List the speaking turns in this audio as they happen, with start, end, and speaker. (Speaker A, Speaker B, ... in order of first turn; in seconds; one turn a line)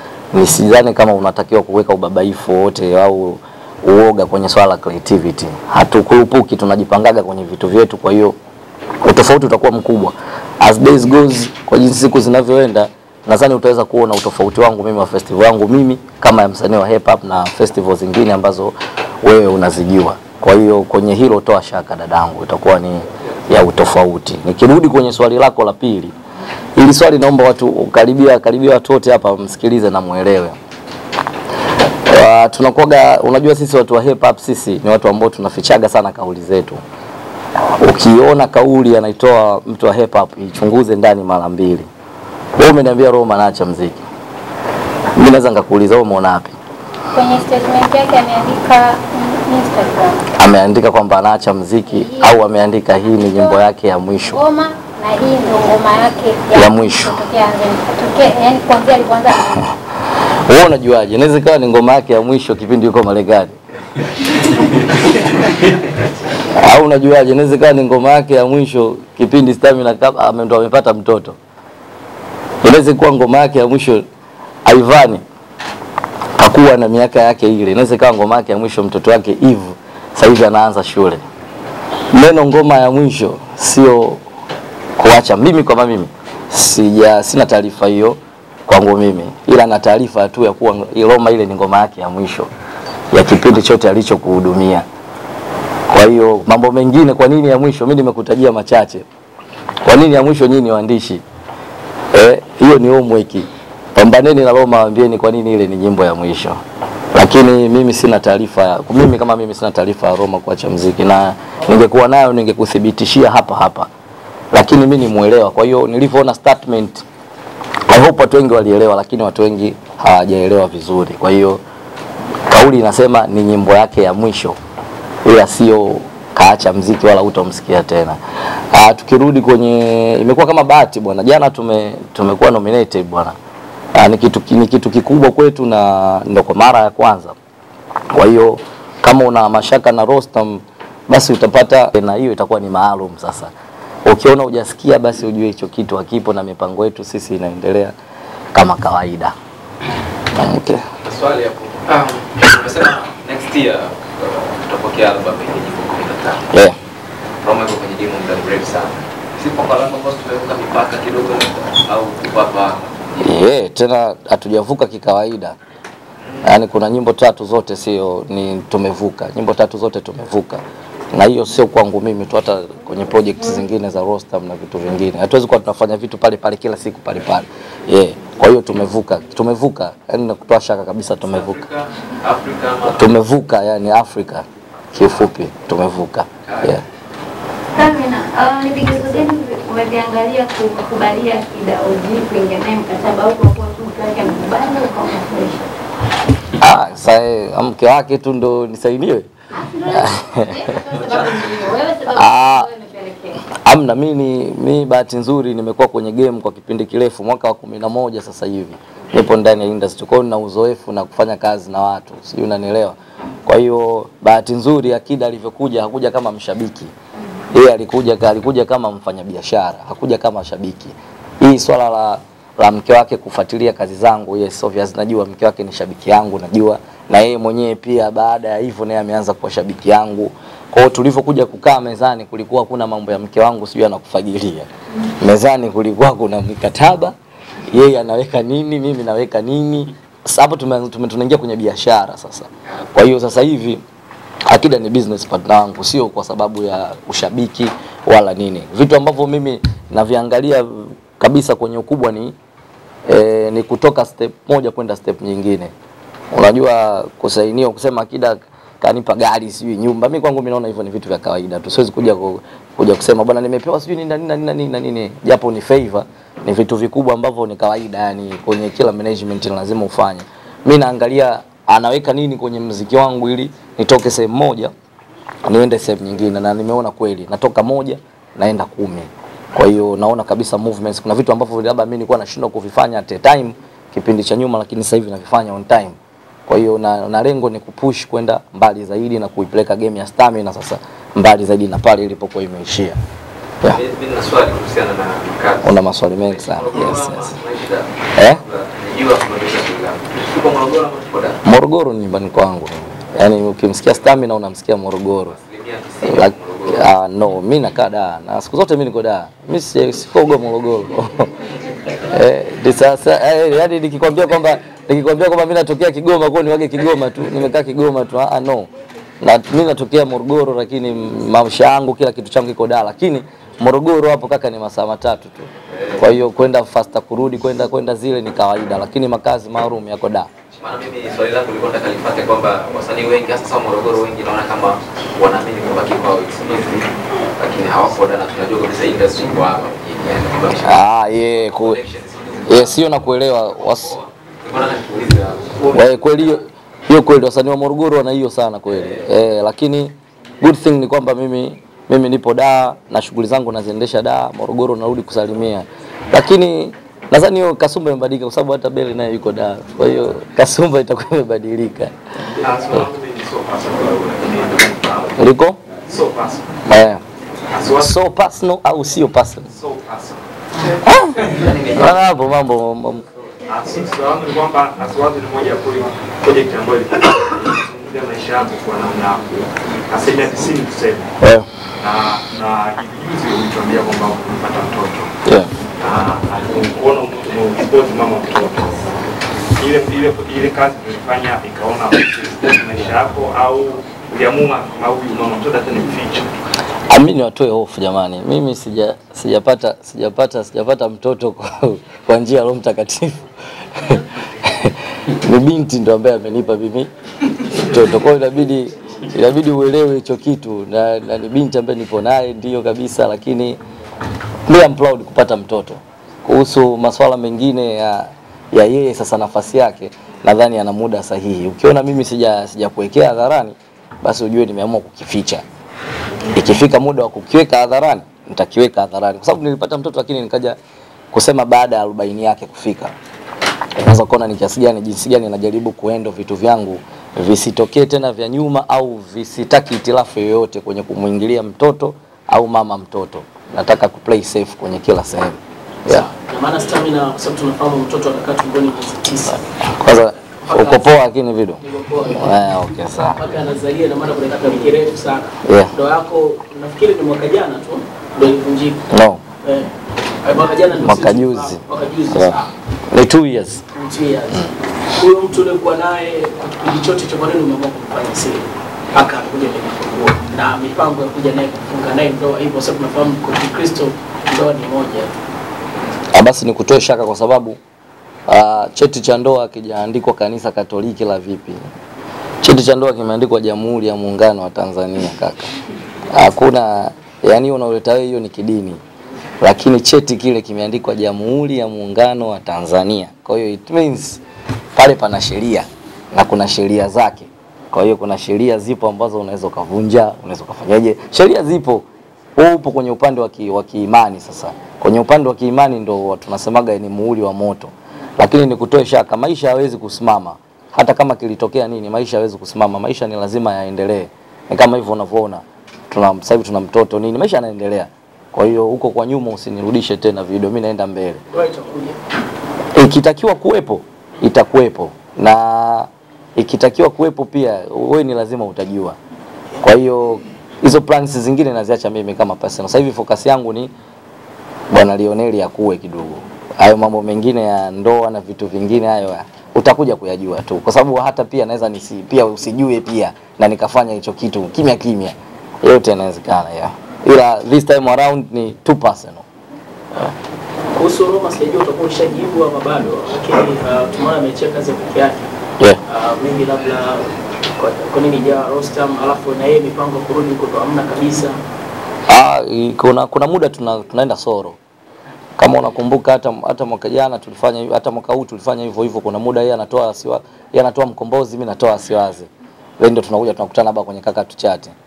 Speaker A: 0.3-8.3
Speaker A: 9.0-26.1
Speaker A: 26.8-30.6
Speaker A: 32.1-36.8
Speaker A: 37.8-41.9
Speaker A: 42.6-44.0
Speaker A: 45.1-46.6
Speaker B: 47.1-50.2
Speaker A: 50.4-54.4
Speaker B: 51.9-52.4
Speaker B: 53.1-53.6
Speaker B: 54.2-59.7
Speaker A: 56.5-57.2
Speaker A: 60.4-63.5
Speaker A: 66.4-71.4
Speaker A: 72.6-74.0
Speaker A: 74.7-75.2
Speaker A: 76.4-81.2
Speaker A: 82.1-84.2
Speaker A: 85.0-92.5
Speaker A: 93.1-94.8
Speaker A: 95.9-99.0
Speaker A: 99.8-101.2
Speaker A: 102.1-106.6
Speaker A: 107.1-113.9
Speaker A: 114.5-117.0
Speaker A: 117.9-121.6
Speaker A: 122.5-124.6
Speaker A: 125.2-128.2
Speaker A: 128.7-133.3
Speaker A: 133.9-137.3
Speaker A: 138.1-143.5
Speaker A: 144.0-147.9
Speaker A: 148.5-149.3
Speaker A: 150.3-150.8
Speaker C: 151.0-156.4
Speaker A: 156.5-156.8
Speaker C: 157.4-163.4
Speaker A: 163.2-165.6
Speaker A: 166.4-181.6
Speaker C: 181.4-183.0
Speaker A: 182.9-186.8
Speaker D: 187.8-195.7
Speaker A: 196.6-199.3
Speaker D: 199.6-203.4
Speaker A: 199.9-200.7
Speaker A: 202.1-202.7
Speaker A: 203.5-216.9
Speaker A: 217.5-234.7
Speaker A: 235.2-237.1
Speaker A: 237.7-243.8
Speaker A: 244.5-252.3
Speaker A: 253.1-255.7
Speaker A: 256.3-274.7
Speaker A: 275.4-285.9
Speaker A: 286.5-293.0
Speaker C: 293.7-301.4
Speaker A: 295.6-297.3
Speaker A: 298.1-298.4
Speaker A: 301.4-305.4
Speaker C: 305.3-306.8
Speaker A: 306.1-311.3
Speaker A: 312.0-318.7
Speaker A: 319.2-330.3
Speaker C: 330.6-340.8
Speaker A: 340.6-341.8
Speaker C: 341.5-342.8
Speaker A: 342.5-343.9
Speaker C: 344.0-345.7
Speaker A: 345.7-361.9
Speaker E: 362.4-365.1
Speaker A: 365.2-365.6
Speaker E: 365.9-366.5
Speaker A: 366.7-367.0
Speaker E: 367.5-367.9
Speaker A: 367.8-369.5
Speaker E: 369.5-370.2
Speaker A: 370.9-371.1
Speaker C: 371.2-372.0
Speaker A: 371.8-373.0
Speaker E: 373.5-379.4
Speaker E: 379.9-381.2
Speaker A: 381.2-381.5
Speaker E: 381.8-385.1
Speaker E: 385.8-388.9
Speaker E: 389.6-396.3
Speaker A: 396.9-403.2
Speaker A: 403.8-413.6
Speaker A: 414.5-425.4
Speaker A: 426.3-430.6
Speaker A: 431.1-432.9
Speaker A: 433.8-446.1
Speaker F: 445.9-449.4
Speaker A: 449.6-453.2
Speaker F: 450.4-451.0
Speaker F: 451.6-452.4
Speaker F: 453.2-458.8
Speaker A: 455.4-455.7
Speaker A: 458.9-459.2
Speaker F: 459.4-459.7
Speaker F: 460.2-462.5
Speaker A: 460.8-462.4
Speaker A: 462.9-463.6
Speaker F: 463.7-475.1
Speaker A: 476.1-477.6
Speaker A: 478.3-481.6
Speaker A: 482.4-485.5
Speaker A: 486.1-488.8
Speaker A: 489.4-494.2
Speaker A: 494.8-521.2
Speaker F: 521.3-522.0
Speaker A: 522.8-529.0
Speaker A: 529.6-533.7
Speaker A: 534.7-549.2
Speaker F: 550.7-555.3
Speaker F: 555.9-561.4
Speaker A: 562.1-564.6
Speaker A: 565.4-574.7